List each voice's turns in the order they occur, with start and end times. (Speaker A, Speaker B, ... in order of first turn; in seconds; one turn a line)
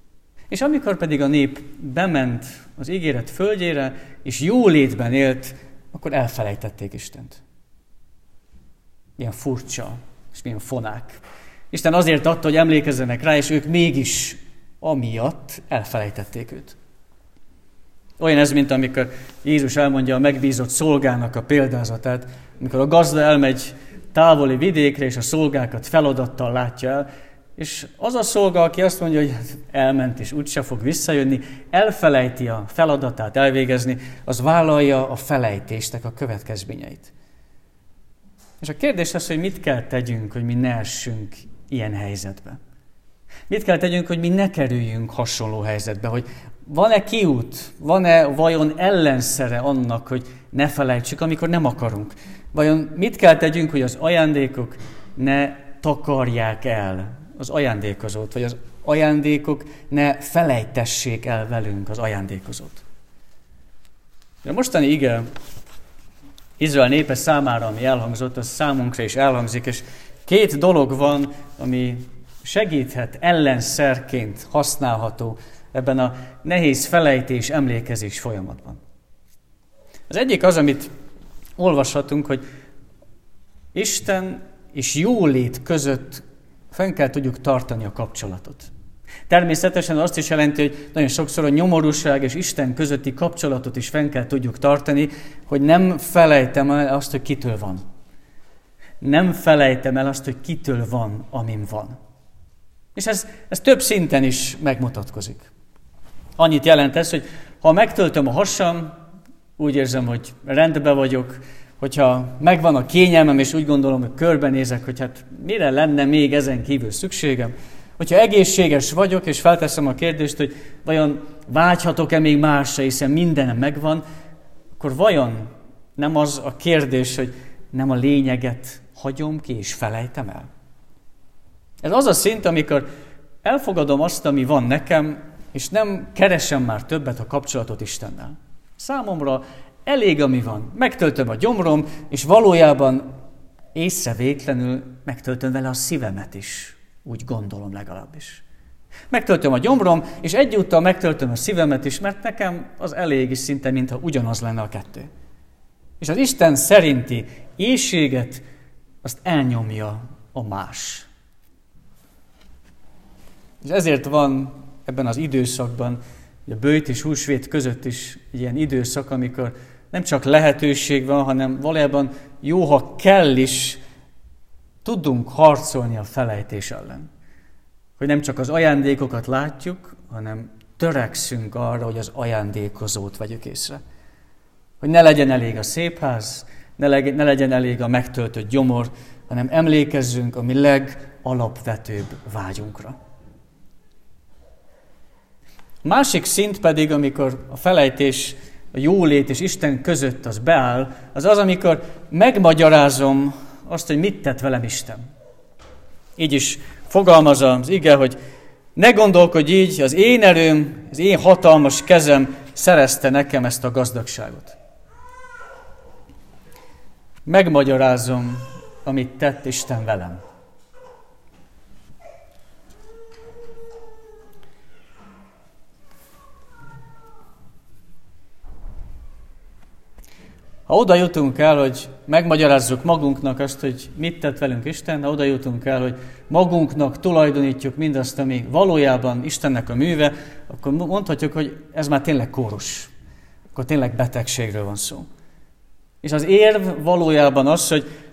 Speaker A: 0.5-7.4
Speaker A: 9.2-16.8
Speaker A: 18.2-37.1
Speaker A: 38.6-42.6
Speaker A: 43.5-62.8
Speaker A: 64.4-65.2
Speaker A: 66.6-78.8
Speaker A: 80.1-80.9
Speaker A: 81.6-82.4
Speaker A: 83.7-88.7
Speaker A: 89.3-97.8
Speaker A: 99.0-102.0
Speaker A: 102.9-105.5
Speaker A: 106.4-109.0
Speaker A: 109.6-124.0
Speaker A: 124.8-130.5
Speaker A: 131.8-132.8
Speaker A: 133.4-143.1
Speaker A: 143.7-148.4
Speaker A: 149.1-155.1
Speaker A: 156.0-158.4
Speaker A: 159.0-161.1
Speaker A: 163.6-173.8
Speaker A: 174.8-177.1
Speaker A: 178.0-183.8
Speaker A: 184.8-193.0
Speaker A: 195.8-205.0
Speaker A: 206.2-208.2
Speaker A: 208.8-214.6
Speaker A: 217.2-220.2
Speaker A: 230.7-242.9
Speaker A: 243.6-245.1
Speaker A: 246.0-247.8